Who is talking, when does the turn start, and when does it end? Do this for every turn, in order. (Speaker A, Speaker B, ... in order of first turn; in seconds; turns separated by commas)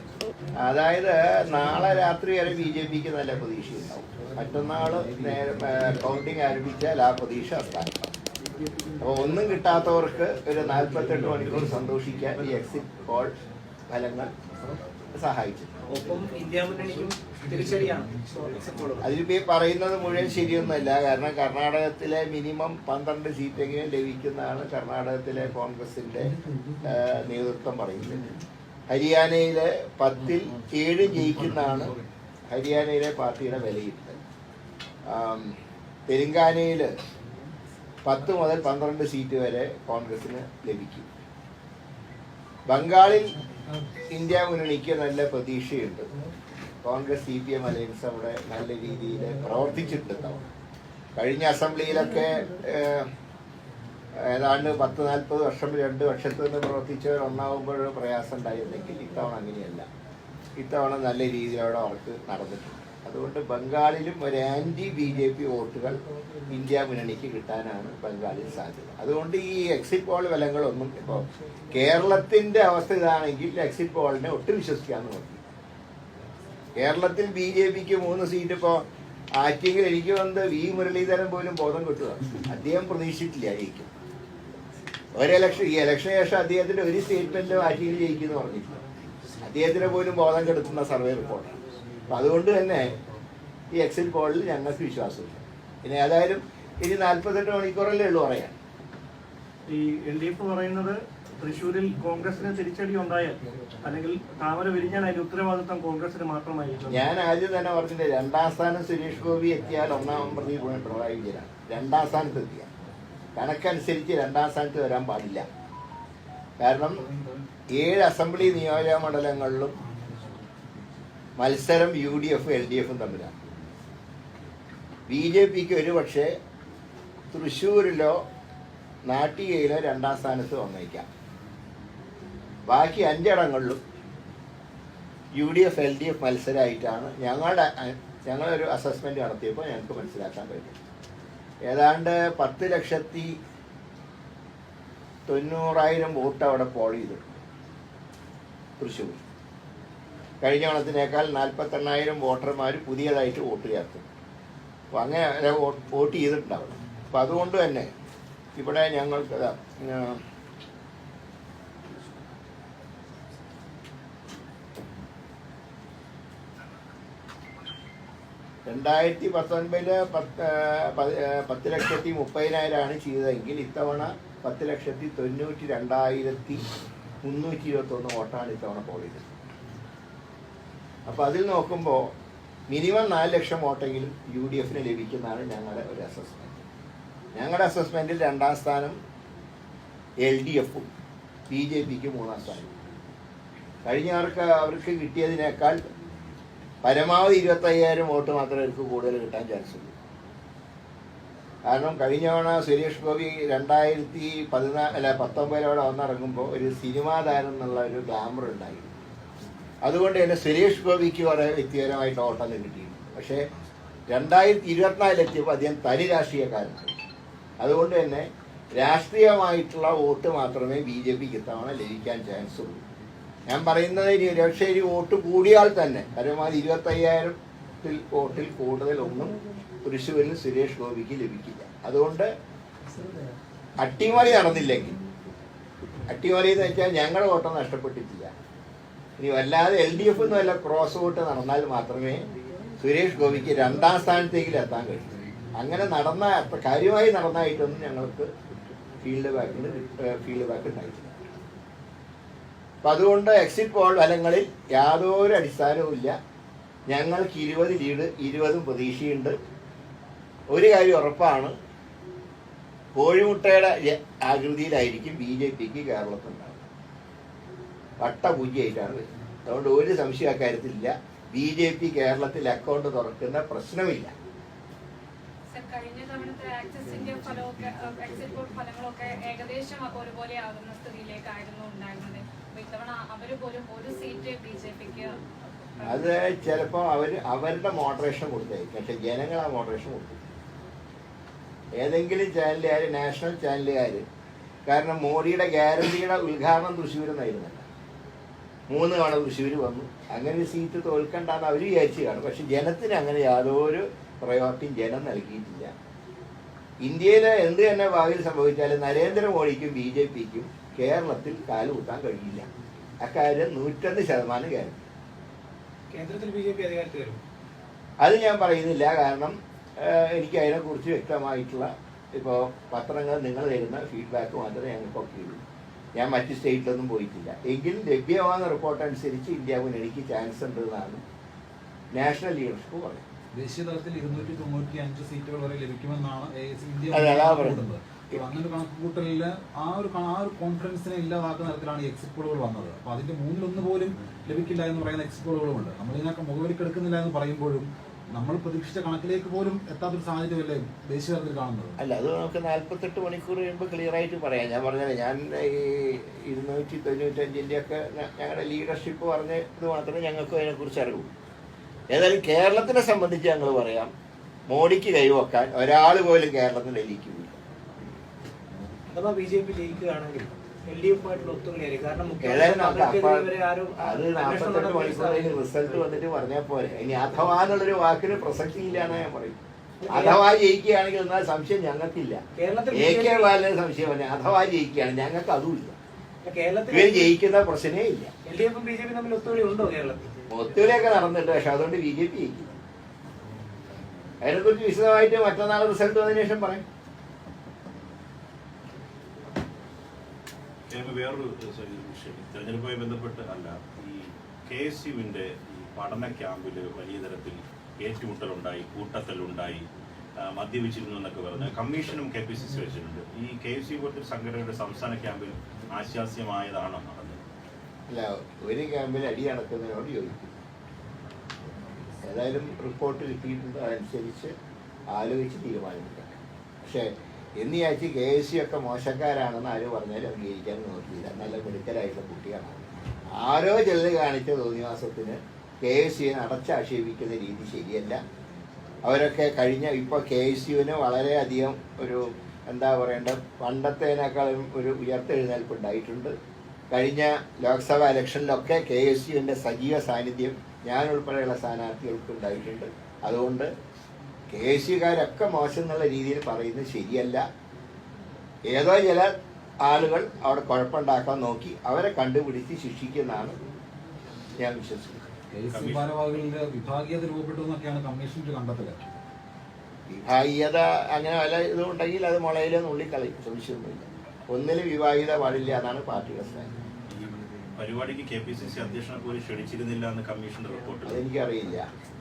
Speaker A: 0.6-8.1, Speaker A: 9.0-13.3, Speaker A: 13.9-14.3, Speaker A: 15.1-15.7, Speaker B: 15.9-19.1, Speaker A: 19.0-26.3, Speaker A: 26.9-28.3, Speaker A: 28.9-31.9, Speaker C: 31.4-32.1, Speaker A: 32.5-34.2, Speaker A: 35.1-35.5, Speaker A: 36.1-36.9, Speaker A: 38.0-41.0, Speaker A: 42.7-43.4, Speaker A: 44.1-46.1, Speaker A: 46.8-50.4, Speaker A: 51.1-53.1, Speaker A: 54.2-59.9, Speaker A: 60.6-75.4, Speaker A: 76.8-78.8, Speaker A: 79.4-83.9, Speaker A: 85.2-88.8, Speaker A: 89.4-91.6, Speaker A: 92.1-93.0, Speaker A: 93.7-98.5, Speaker D: 99.7-107.0, Speaker A: 106.9-112.7, Speaker A: 113.3-115.5, Speaker A: 116.6-117.0, Speaker C: 116.9-117.5, Speaker A: 117.7-119.8, Speaker C: 119.8-120.4, Speaker A: 121.4-123.3, Speaker A: 125.1-126.3, Speaker A: 127.3-128.2, Speaker A: 129.1-131.1, Speaker A: 132.7-133.8, Speaker A: 135.3-140.8, Speaker A: 141.7-143.3, Speaker A: 145.3-147.4, Speaker A: 148.8-149.2, Speaker A: 150.4-154.0, Speaker A: 154.9-157.9, Speaker A: 158.6-160.2, Speaker A: 168.7-176.6, Speaker A: 177.2-179.2, Speaker A: 181.1-182.1, Speaker A: 182.7-186.6, Speaker A: 187.3-188.9, Speaker A: 190.2-190.9, Speaker A: 191.5-192.7, Speaker A: 193.8-195.8, Speaker A: 196.8-199.9, Speaker A: 201.7-208.9, Speaker A: 209.8-213.4, Speaker A: 214.1-216.9, Speaker A: 217.6-222.8, Speaker A: 223.5-232.3, Speaker A: 233.8-235.0, Speaker A: 236.1-238.3, Speaker A: 239.2-242.3, Speaker A: 242.8-248.3, Speaker A: 249.0-251.4, Speaker A: 252.8-256.1, Speaker A: 256.9-259.3, Speaker A: 260.5-261.5, Speaker A: 262.9-266.6, Speaker A: 268.0-274.1, Speaker E: 275.5-285.2, Speaker E: 285.7-286.1, Speaker A: 285.9-290.2, Speaker A: 291.8-294.0, Speaker A: 294.7-297.6, Speaker A: 298.7-305.7, Speaker A: 306.8-312.5, Speaker A: 313.0-314.8, Speaker B: 315.9-317.2, Speaker A: 318.0-325.4, Speaker A: 325.9-331.0, Speaker A: 331.9-333.0, Speaker C: 333.4-351.8, Speaker A: 336.9-337.6, Speaker A: 351.8-361.1, Speaker A: 361.9-363.9, Speaker A: 364.5-367.4, Speaker B: 368.9-375.4, Speaker A: 372.2-385.8, Speaker B: 379.8-380.2, Speaker B: 382.4-383.3, Speaker B: 386.2-387.1, Speaker A: 386.7-388.1, Speaker B: 388.3-390.1, Speaker A: 390.3-392.5, Speaker A: 394.2-396.6, Speaker F: 400.7-409.6, Speaker F: 410.2-417.2, Speaker A: 417.9-420.3, Speaker A: 422.1-424.3, Speaker A: 424.9-432.6, Speaker A: 433.2-438.0, Speaker A: 438.9-446.1, Speaker A: 446.7-453.5, Speaker A: 454.3-457.2, Speaker A: 458.5-463.4, Speaker A: 464.4-465.0, Speaker C: 465.3-468.9, Speaker F: 465.5-465.9, Speaker A: 469.9-476.5, Speaker F: 476.9-481.0, Speaker A: 480.8-481.7